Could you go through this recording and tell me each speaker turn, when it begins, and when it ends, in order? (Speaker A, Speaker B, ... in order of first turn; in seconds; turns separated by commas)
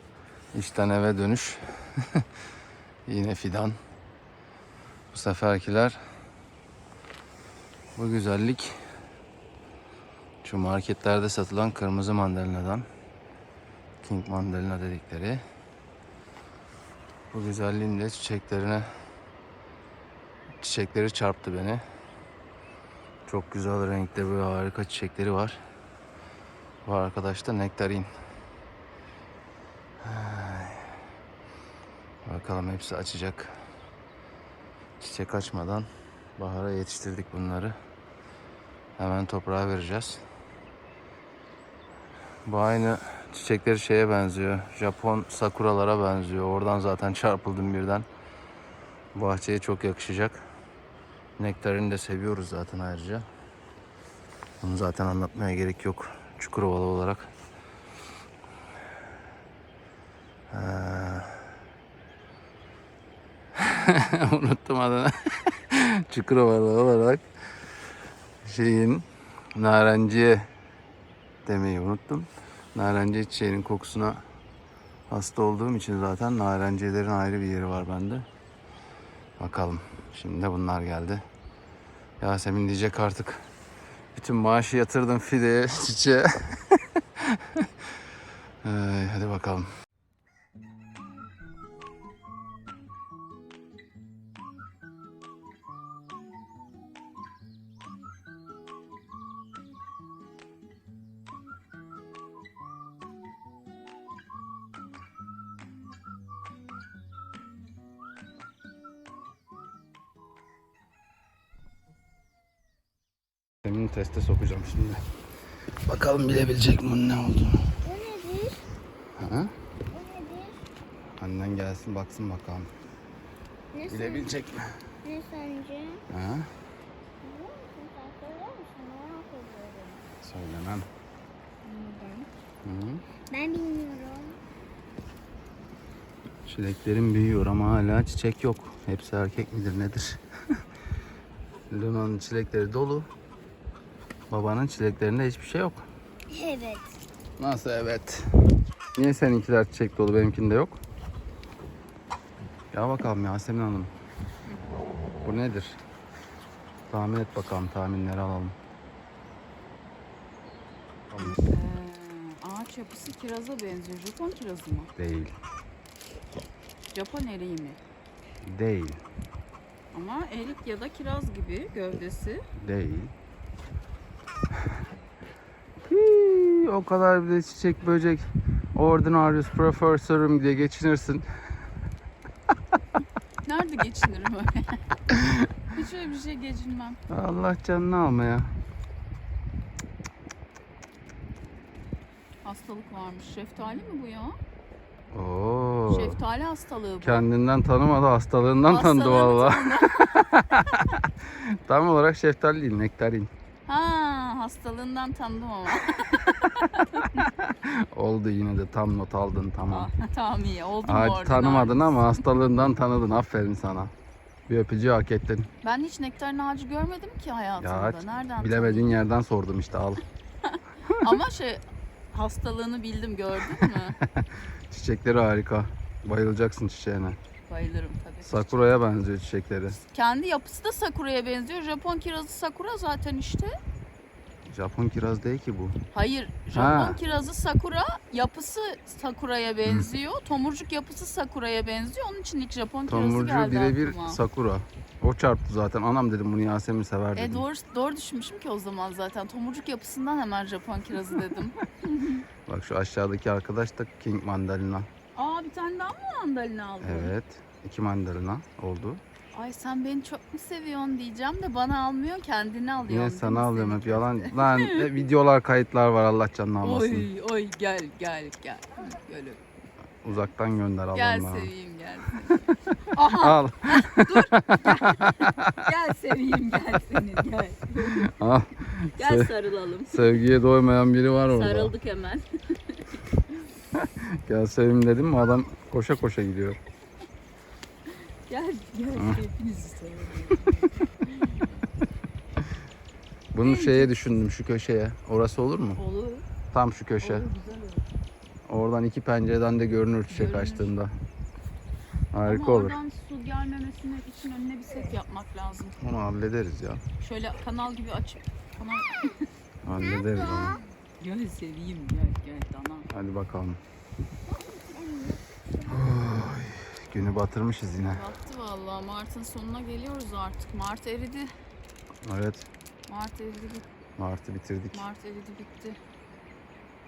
Speaker A: 0.5-1.9, Speaker A: 3.0-3.8, Speaker A: 5.1-6.0, Speaker A: 7.9-8.8, Speaker A: 10.4-12.9, Speaker A: 14.0-15.4, Speaker A: 17.3-18.9, Speaker A: 20.6-21.8, Speaker A: 23.2-25.6, Speaker A: 26.8-28.1, Speaker A: 30.0-31.0, Speaker A: 32.2-33.6, Speaker A: 35.0-37.7, Speaker A: 39.0-40.2, Speaker A: 42.4-48.0, Speaker A: 49.1-50.5, Speaker A: 51.4-53.2, Speaker A: 54.6-57.3, Speaker A: 60.5-61.4, Speaker A: 63.5-67.3, Speaker A: 68.4-70.5, Speaker A: 71.4-74.2, Speaker A: 75.1-78.2, Speaker A: 79.4-81.2, Speaker A: 82.2-83.5, Speaker A: 84.1-87.7, Speaker A: 88.6-89.7, Speaker A: 113.6-115.0, Speaker A: 115.8-117.8, Speaker B: 117.8-118.7, Speaker A: 119.2-119.5, Speaker B: 119.9-120.7, Speaker A: 121.2-122.7, Speaker B: 123.7-124.4, Speaker A: 123.9-124.9, Speaker B: 125.0-126.0, Speaker A: 126.1-126.5, Speaker B: 127.2-130.0, Speaker A: 130.2-130.9, Speaker B: 131.6-132.3, Speaker A: 132.6-133.0, Speaker B: 133.2-134.4, Speaker A: 136.4-140.6, Speaker A: 141.7-143.1, Speaker A: 144.3-145.8, Speaker B: 146.3-147.0, Speaker A: 147.4-148.2, Speaker A: 148.9-150.8, Speaker A: 152.7-153.9, Speaker A: 155.2-155.8, Speaker A: 156.9-158.6, Speaker A: 161.1-161.4, Speaker C: 161.2-164.9, Speaker A: 165.0-165.3, Speaker C: 166.9-167.8, Speaker A: 168.4-169.0, Speaker C: 169.9-172.4, Speaker A: 172.6-173.1, Speaker A: 175.9-181.3, Speaker C: 183.4-184.9, Speaker A: 185.1-185.5, Speaker C: 185.7-187.0, Speaker A: 187.1-188.5, Speaker C: 192.4-194.3, Speaker A: 195.1-196.2, Speaker C: 195.8-197.3, Speaker A: 197.0-203.3, Speaker C: 198.6-201.0, Speaker C: 203.7-207.3, Speaker A: 207.2-209.9, Speaker C: 209.6-212.5, Speaker A: 210.8-213.9, Speaker A: 214.5-215.5, Speaker C: 215.6-219.1, Speaker A: 217.6-220.0, Speaker C: 220.4-224.0, Speaker A: 223.5-227.2, Speaker C: 227.5-229.0, Speaker A: 228.2-229.8, Speaker C: 229.8-233.5, Speaker A: 234.5-235.8, Speaker C: 235.9-244.2, Speaker A: 236.5-237.0, Speaker A: 242.9-247.5, Speaker C: 247.1-252.3, Speaker A: 252.5-254.9, Speaker C: 255.1-257.1, Speaker A: 256.8-259.0, Speaker C: 259.3-265.1, Speaker A: 262.9-267.1, Speaker C: 266.6-269.4, Speaker A: 270.0-271.5, Speaker C: 270.9-278.2, Speaker A: 272.9-275.5, Speaker A: 277.9-279.3, Speaker C: 278.9-280.2, Speaker A: 279.9-281.7, Speaker C: 281.2-283.4, Speaker A: 283.7-286.6, Speaker C: 287.9-291.6, Speaker A: 288.9-289.2, Speaker A: 293.3-295.8, Speaker C: 293.4-294.2, Speaker C: 295.7-296.3, Speaker A: 296.5-297.3, Speaker C: 297.0-297.9, Speaker A: 298.5-300.9, Speaker C: 300.1-300.8, Speaker A: 302.1-302.8, Speaker C: 302.2-305.8, Speaker A: 305.8-306.8, Speaker C: 307.0-309.3, Speaker A: 309.6-310.6, Speaker B: 309.7-310.6, Speaker C: 310.5-312.9, Speaker A: 312.9-313.6, Speaker B: 314.2-316.0, Speaker A: 315.7-318.1, Speaker C: 317.8-321.3, Speaker A: 322.0-322.5, Speaker C: 322.9-323.7, Speaker A: 324.0-324.9, Speaker C: 324.7-325.8